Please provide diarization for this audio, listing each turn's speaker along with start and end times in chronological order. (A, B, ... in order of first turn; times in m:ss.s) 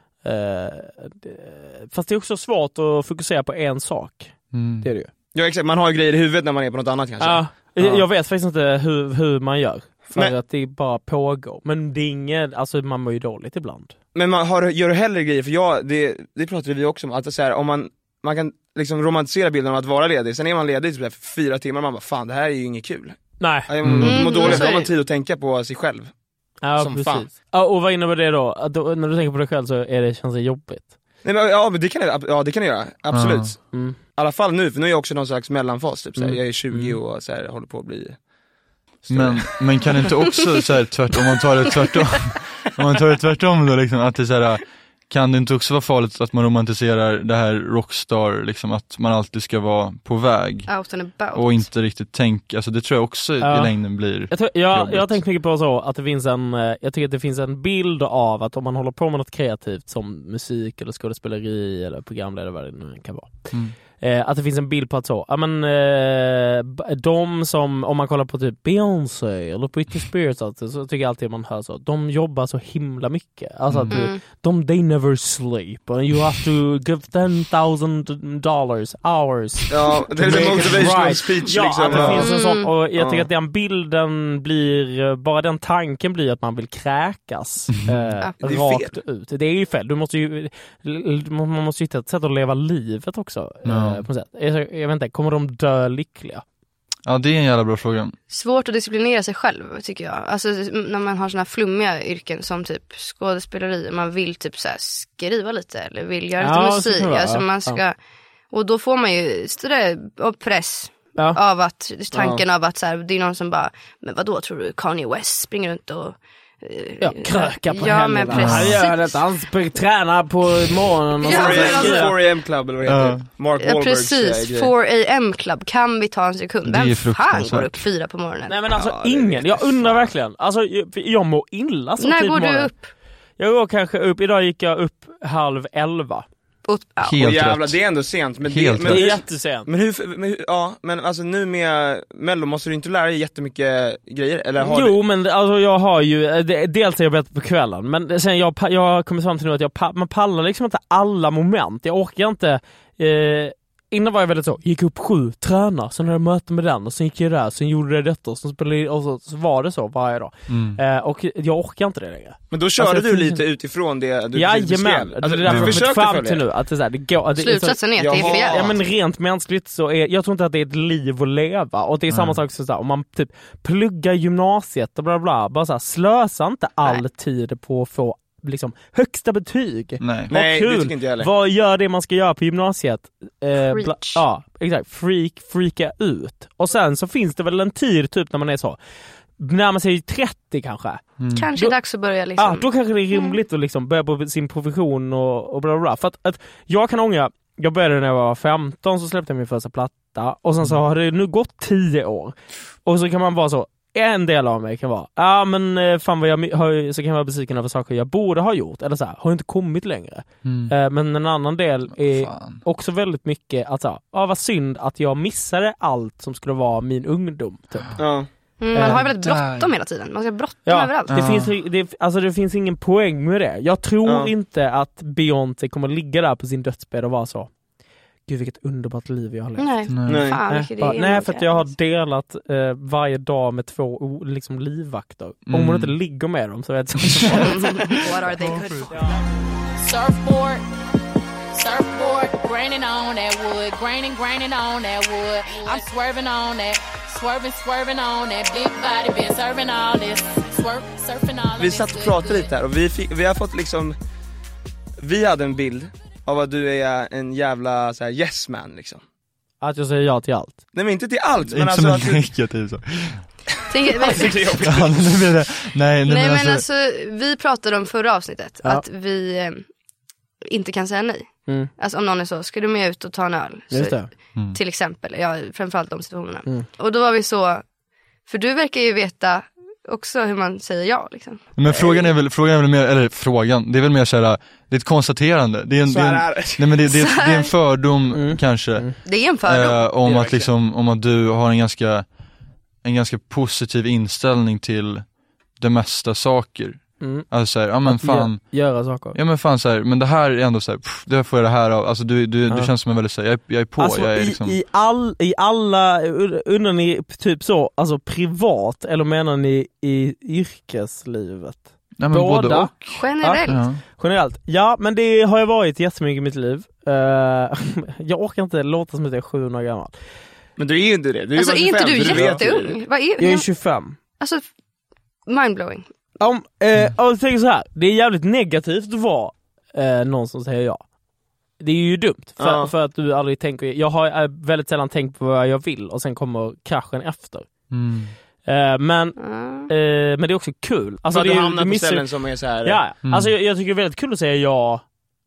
0:00.2-0:05.1 A
0:04.5-0:04.9 B
0:05.3-0:08.0 C
0:07.2-0:13.9 A
0:14.2-0:26.1 C
0:23.4-0:23.7 A
0:23.8-0:24.6 B
0:24.0-0:24.9 D
0:26.6-0:31.0 A
0:26.8-0:27.3 C
0:31.2-0:38.2 C
0:33.1-0:33.5 B
0:36.2-0:37.0 A
0:39.1-0:39.6 C
0:39.1-0:55.2 B
0:50.7-0:51.7 D
0:53.4-1:36.4 A
1:03.5-1:03.8 B
1:13.7-1:14.0 B
1:13.9-1:14.2 D
1:19.7-1:22.4 C
1:20.3-1:20.9 B
1:21.9-1:22.2 B
1:22.2-1:22.7 D
1:22.9-1:23.3 C
1:28.4-1:29.0 C
1:33.6-1:34.0 B
1:37.1-1:38.2 B
1:38.3-1:48.0 D
1:46.4-1:47.8 A
1:48.5-1:59.2 D
1:52.1-1:52.4 C
1:57.0-2:02.2 A
1:58.4-1:58.8 B
2:01.2-2:02.1 D
2:01.2-2:04.7 C
2:02.9-2:03.3 B
2:03.6-2:08.6 D
2:06.7-2:07.8 B
2:08.5-2:12.7 A
2:08.7-2:10.1 C
2:12.0-2:12.9 D
2:13.4-2:16.3 A
2:16.6-2:17.2 D
2:17.0-2:19.2 B
2:17.2-2:25.0 C
2:18.8-2:19.7 A
2:24.6-2:43.4 A
2:40.5-2:40.8 B
2:42.5-2:46.4 C
2:44.3-3:08.8 A
2:45.5-2:45.8 B
2:47.4-2:48.7 D
2:48.0-2:48.8 C
2:52.1-2:52.4 B
3:00.0-3:00.3 B
3:00.3-3:01.3 C
3:03.7-3:04.2 D
3:09.4-3:11.0 A
3:11.2-3:11.5 B
3:11.3-3:13.4 D
3:12.4-3:38.1 A
3:30.4-3:30.7 B
3:32.0-3:32.6 B
3:38.0-3:38.3 C
3:38.6-3:41.1 D
3:38.7-3:39.0 A
3:38.8-3:39.7 B
3:40.7-3:47.5 A
3:41.1-3:41.5 B
3:44.0-3:44.3 C
3:48.3-3:57.8 A
3:49.6-3:51.7 D
3:49.9-3:50.3 B
3:50.1-3:50.4 C
3:55.5-3:56.0 B
3:57.2-3:57.7 B
3:57.3-3:58.9 D
3:58.3-3:58.9 B
3:59.8-4:00.6 E
4:01.5-4:12.5 E
4:11.6-4:14.0 C
4:15.0-4:19.0 C
4:19.6-4:20.6 A
4:20.7-4:22.3 C
4:21.4-4:23.4 B
4:23.7-4:24.5 D
4:24.0-4:25.2 C
4:24.6-4:26.6 B
4:26.1-4:29.6 D
4:30.5-4:37.6 D
4:33.7-4:34.1 A
4:38.3-4:41.4 D
4:41.6-5:04.6 B
4:45.8-4:46.8 C
4:46.9-4:47.5 D
4:48.1-4:49.0 A
4:49.0-4:49.8 D
4:49.9-4:50.5 C
4:57.0-4:59.2 A
5:02.5-5:02.7 A
5:03.8-5:20.0 A
5:12.0-5:13.8 B
5:12.9-5:13.6 D
5:20.6-5:22.7 C
5:21.4-5:23.5 D
5:22.0-5:24.0 A
5:25.3-5:25.9 D
5:26.2-5:30.9 A
5:31.6-5:37.5 A
5:32.4-5:32.7 C
5:37.7-5:38.2 B
5:38.4-5:44.8 A
5:39.2-5:39.7 D
5:41.1-5:42.9 C
5:43.0-5:43.3 B